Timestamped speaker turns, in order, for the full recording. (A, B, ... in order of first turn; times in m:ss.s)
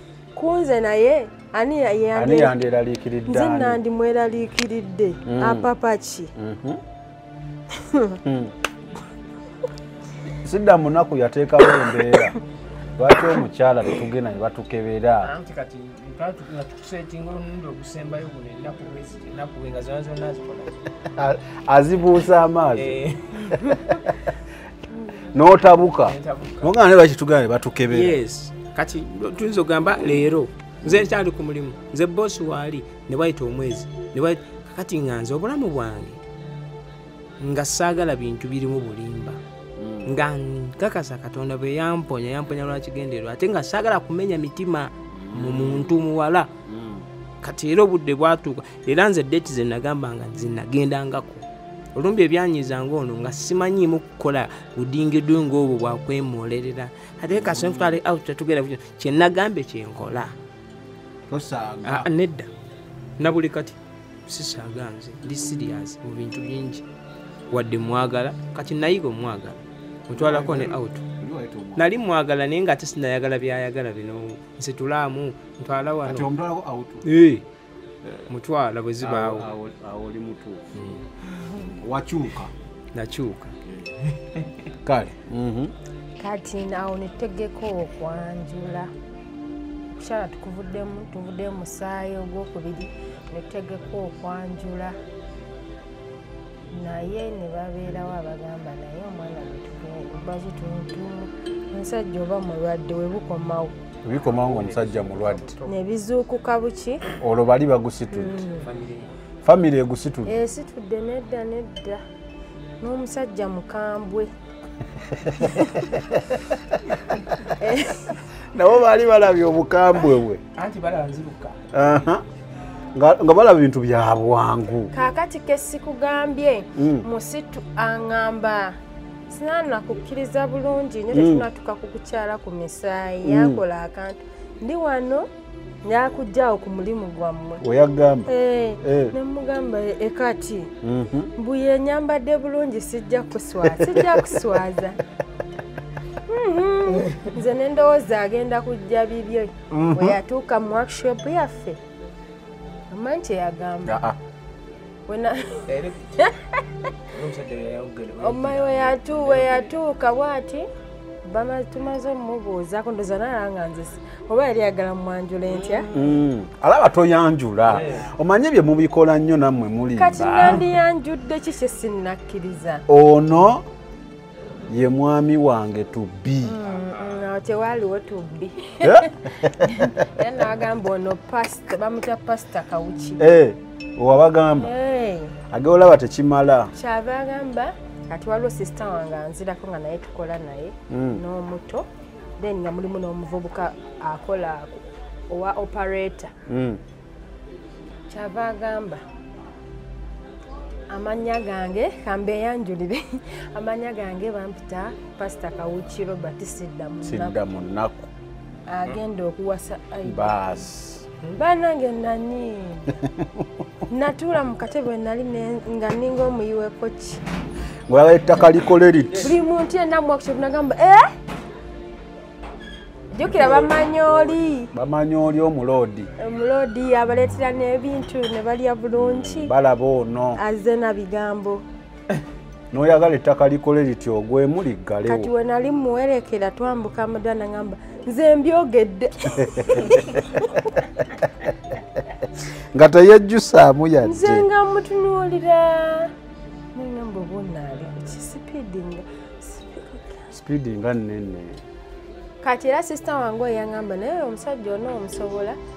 0:00.4-0:02.6 A
0:02.1-0:03.8 B
0:03.3-0:06.3 A
0:05.2-0:05.7 B
0:06.4-0:06.8 B
0:07.8-0:08.2 A
0:08.2-0:08.5 B
0:10.4-0:12.4 B
0:13.0-0:15.3 B
0:15.2-0:20.8 C
0:21.1-0:23.0 B
0:22.7-0:23.8 C
0:23.6-0:24.2 B
0:25.3-0:28.2 B
0:25.6-0:26.7 C
0:27.9-0:36.2 C
0:30.0-0:30.2 B
0:30.8-0:31.1 B
0:37.4-0:39.4 C
0:39.8-0:40.2 B
0:40.0-0:46.5 C
0:45.1-0:46.0 B
0:46.6-0:47.1 B
0:47.4-1:00.3 C
0:57.3-0:58.0 B
1:01.3-1:02.1 B
1:01.8-1:02.5 C
1:03.2-1:06.8 C
1:07.5-1:11.0 C
1:10.1-1:11.9 B
1:11.8-1:16.3 C
1:16.0-1:17.4 B
1:17.0-1:17.4 C
1:18.3-1:19.5 C
1:19.0-1:20.6 B
1:20.8-1:21.0 C
1:21.6-1:22.5 B
1:22.9-1:23.5 C
1:24.8-1:25.7 B
1:26.2-1:28.9 A
1:30.0-1:34.9 A
1:36.7-1:43.7 A
1:44.0-1:45.5 B
1:44.2-1:45.8 C
1:45.6-1:47.0 A
1:47.2-1:48.4 B
1:48.1-1:48.6 A
1:48.5-1:49.1 C
1:49.4-1:50.4 B
1:50.2-1:52.0 A
1:52.8-1:54.3 A
1:55.2-1:56.4 B
1:55.4-1:55.7 A
1:57.5-1:58.1 A
1:58.5-2:00.4 B
1:59.9-2:01.6 C
2:01.7-2:02.2 B
2:02.9-2:04.9 B
2:04.9-2:08.8 A
2:06.8-2:07.1 B
2:09.3-2:15.3 A
2:11.1-2:11.5 B
2:13.2-2:13.6 B
2:15.8-2:17.6 A
2:17.6-2:18.3 B
2:18.3-2:20.7 A
2:18.8-2:19.1 B
2:20.8-2:21.3 B
2:21.4-2:25.0 A
2:23.6-2:24.4 B
2:26.3-2:31.8 A
2:27.0-2:27.3 C
2:29.7-2:30.2 B
2:32.9-2:34.0 A
2:33.8-2:34.2 B
2:35.1-2:36.9 A
2:35.7-2:36.1 C
2:37.1-2:39.7 C
2:38.2-2:40.7 A
2:41.2-2:45.9 A
2:45.5-2:46.2 C
2:45.9-2:50.7 B
2:47.7-2:48.1 C
2:50.0-2:52.8 A
2:52.9-2:53.6 B
2:54.7-2:56.6 B
2:56.4-3:03.2 A
2:58.8-3:00.0 B
3:03.2-3:04.7 B
3:04.6-3:05.4 A
3:05.5-3:06.7 B
3:06.8-3:11.9 A
3:10.9-3:11.2 B
3:12.4-3:16.3 A
3:16.5-3:16.8 B
3:18.1-3:19.0 A
3:20.9-3:27.4 A
3:27.0-3:28.1 B
3:28.7-3:30.4 A
3:30.0-3:31.0 B
3:31.4-3:33.0 A
3:33.0-3:33.5 B
3:33.9-3:37.2 A
3:37.9-3:39.3 B
3:39.2-3:41.1 A
3:43.1-3:44.7 A
3:43.2-3:44.5 C
3:44.7-3:46.1 B
3:46.2-3:49.5 A
3:48.9-3:50.4 B
3:50.4-3:51.6 A
3:52.7-3:55.3 B
3:55.0-4:00.7 A
3:59.7-4:00.2 B
4:02.7-4:04.4 B
4:04.0-4:06.1 A
4:06.8-4:10.3 A
4:10.3-4:11.6 B
4:12.4-4:15.6 A